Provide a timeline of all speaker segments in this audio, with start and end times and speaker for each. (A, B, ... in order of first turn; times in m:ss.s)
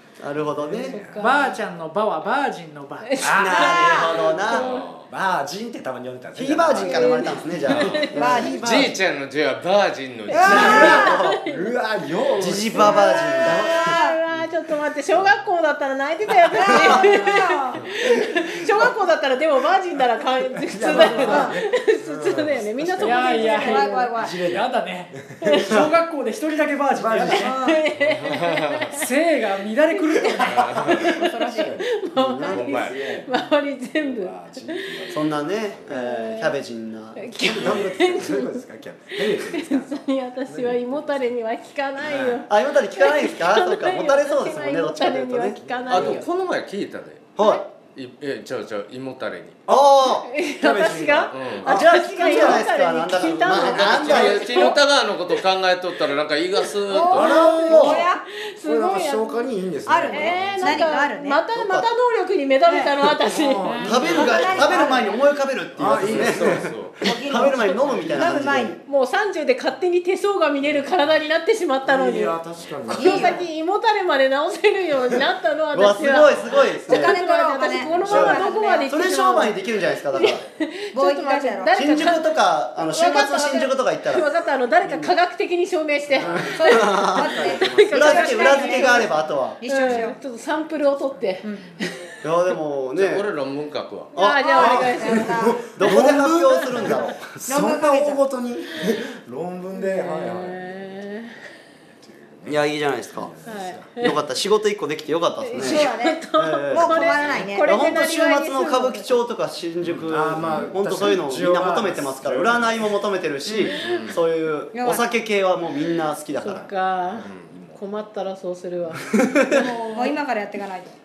0:00.2-0:01.0 A
0:00.6-0:01.2 B
0:00.8-0:01.5 C
0:01.2-0:03.4 D
0:03.0-0:04.9 C
0:03.2-0:09.0 B
0:03.3-0:04.7 A
0:04.4-0:05.0 E
0:06.3-0:08.8 A
0:06.8-0:08.6 C
0:08.1-0:08.6 F
0:08.6-0:10.9 E
0:10.3-0:11.1 F
0:10.3-0:13.1 B
0:10.3-0:11.4 A
0:10.5-0:11.7 C
0:12.3-0:13.9 A
0:12.7-0:23.9 C
0:13.4-0:14.2 F
0:16.5-0:17.8 F
0:16.7-0:17.1 A
0:18.2-0:18.9 B
0:20.6-0:25.3 B
0:20.8-0:21.6 F
0:23.0-0:27.5 D
0:23.4-0:24.4 F
0:25.4-0:25.7 C
0:26.9-0:27.8 B
0:27.3-0:29.1 C
0:28.1-0:28.8 E
0:28.9-0:31.0 D
0:29.9-0:35.0 C
0:30.4-0:30.9 E
0:30.6-0:35.9 B
0:31.1-0:31.7 F
0:32.2-0:32.6 A
0:32.5-0:33.0 E
0:35.1-0:38.2 A
0:35.8-0:36.6 C
0:37.2-0:38.6 C
0:37.4-0:41.3 B
0:39.2-0:46.3 C
0:42.0-0:45.6 A
0:45.6-0:46.2 B
0:45.9-0:47.3 E
0:47.4-0:47.6 A
0:47.4-0:47.6 C
0:47.9-0:49.5 E
0:49.7-0:50.3 A
0:50.2-0:54.8 C
0:50.6-0:52.7 B
0:51.3-0:51.7 E
0:51.6-0:54.8 A
0:53.1-0:57.3 E
0:56.9-0:58.2 F
0:57.1-0:59.5 C
0:57.1-0:58.1 B
0:57.6-0:58.0 A
0:58.6-1:01.0 B
0:59.8-1:01.5 F
1:00.1-1:04.1 C
1:01.5-1:01.9 A
1:02.6-1:02.9 F
1:03.0-1:04.9 B
1:03.8-1:05.2 F
1:03.8-1:08.8 A
1:05.7-1:06.6 B
1:06.0-1:06.9 E
1:07.0-1:08.8 F
1:08.8-1:29.1 C
1:11.8-1:13.4 B
1:12.9-1:13.4 F
1:15.7-1:17.2 A
1:16.8-1:18.9 F
1:18.0-1:20.4 A
1:20.9-1:22.2 F
1:21.7-1:24.2 A
1:24.8-1:25.1 A
1:26.2-1:26.5 B
1:26.2-1:29.6 A
1:26.4-1:30.1 F
1:27.4-1:29.3 B
1:29.7-1:32.0 C
1:29.9-1:30.1 B
1:30.8-1:31.2 B
1:32.2-1:33.3 A
1:33.0-1:34.1 E
1:34.1-1:34.9 A
1:34.1-1:35.4 C
1:34.2-1:35.6 F
1:34.5-1:40.7 B
1:35.6-1:37.4 A
1:37.4-1:38.2 F
1:39.7-1:41.4 C
1:42.0-1:44.0 B
1:42.4-1:43.3 A
1:43.4-1:44.2 C
1:44.0-1:56.7 A
1:45.4-1:49.1 C
1:45.6-1:48.0 F
1:49.9-1:52.9 B
1:53.5-1:54.1 C
1:53.8-1:54.2 E
1:54.7-1:55.2 F
1:56.4-1:59.2 C
1:57.2-1:57.8 B
1:59.1-1:59.7 A
1:59.5-2:00.9 F
1:59.8-2:00.2 D